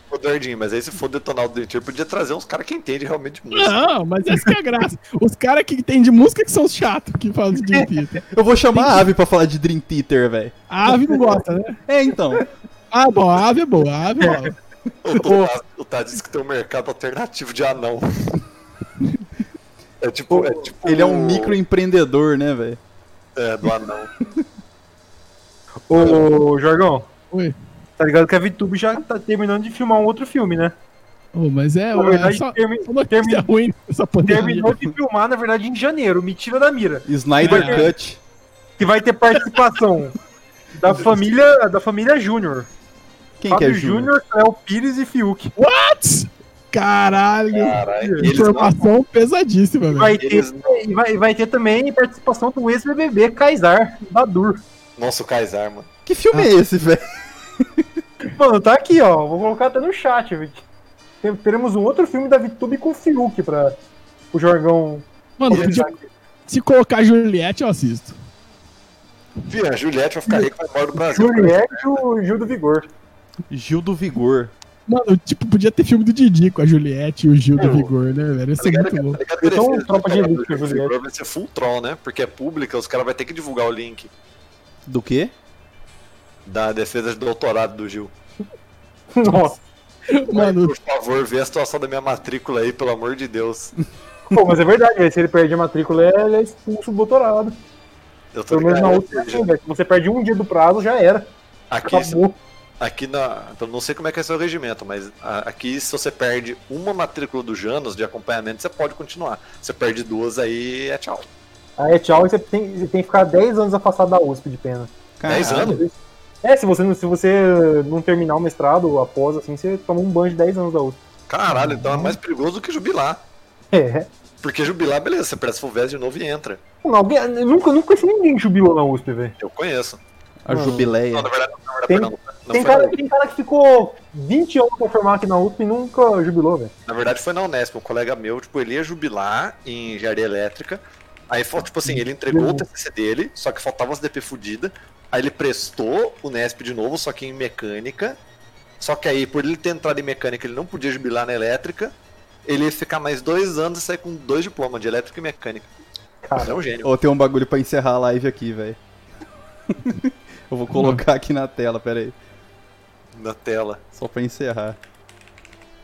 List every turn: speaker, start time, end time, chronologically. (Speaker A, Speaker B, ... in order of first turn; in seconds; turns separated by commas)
Speaker A: 0.1-3.8, Speaker B: 3.5-9.1, Speaker C: 8.3-10.5, Speaker B: 10.7-11.8, Speaker D: 11.1-11.3, Speaker C: 11.9-12.5, Speaker B: 12.9-14.6, Speaker D: 14.2-14.5, Speaker A: 15.0-18.4, Speaker B: 15.2-15.5, Speaker A: 20.0-21.6, Speaker D: 20.3-20.6, Speaker C: 20.8-22.8, Speaker A: 23.4-24.1, Speaker D: 25.9-27.1, Speaker A: 25.9-26.2, Speaker D: 28.0-30.7, Speaker B: 31.3-34.8, Speaker D: 31.9-33.5, Speaker D: 34.2-37.9, Speaker C: 37.1-38.2, Speaker B: 37.4-37.9, Speaker D: 38.8-40.2, Speaker D: 40.8-42.7, Speaker C: 43.4-44.1, Speaker D: 43.5-45.5, Speaker B: 45.6-50.2, Speaker A: 47.5-48.8, Speaker D: 47.9-48.4, Speaker D: 49.9-54.6, Speaker A: 50.2-50.8, Speaker A: 55.0-55.9, Speaker C: 56.0-57.0, Speaker C: 57.6-57.9, Speaker D: 58.2-60.6, Speaker D: 61.2-63.8, Speaker D: 64.3-66.0, Speaker B: 65.4-65.9, Speaker B: 66.5-68.2, Speaker A: 69.5-71.9, Speaker D: 70.3-72.9, Speaker C: 73.5-74.5, Speaker B: 74.9-79.2, Speaker A: 77.6-77.9, Speaker A: 78.6-84.1, Speaker D: 79.4-80.9, Speaker C: 84.9-85.3, Speaker A: 86.5-88.1, Speaker D: 89.2-89.6, Speaker B: 90.1-90.7, Speaker A: 90.3-93.7, Speaker D: 94.3-97.6, Speaker A: 98.3-99.5, Speaker D: 98.5-101.3, Speaker A: 101.7-102.2, Speaker D: 101.9-102.4, Speaker A: 102.8-111.3, Speaker D: 111.8-114.9, Speaker C: 115.2-115.8, Speaker A: 115.3-115.8, Speaker D: 115.4-121.0, Speaker A: 121.3-123.2, Speaker D: 121.6-122.2, Speaker D: 123.7-124.1, Speaker A: 124.4-126.6, Speaker D: 126.8-129.3, Speaker A: 129.4-130.0, Speaker C: 130.4-131.3, Speaker D: 130.5-130.9, Speaker A: 131.1-132.9, Speaker D: 131.9-136.7, Speaker A: 136.9-148.2, Speaker D: 141.9-142.6, Speaker A: 148.8-151.9, Speaker A: 152.5-155.7, Speaker D: 156.2-156.6, Speaker A: 156.4-156.9, Speaker C: 156.8-158.8, Speaker C: 159.7-162.2, Speaker B: 160.7-161.0, Speaker A: 163.2-163.8, Speaker C: 163.9-164.8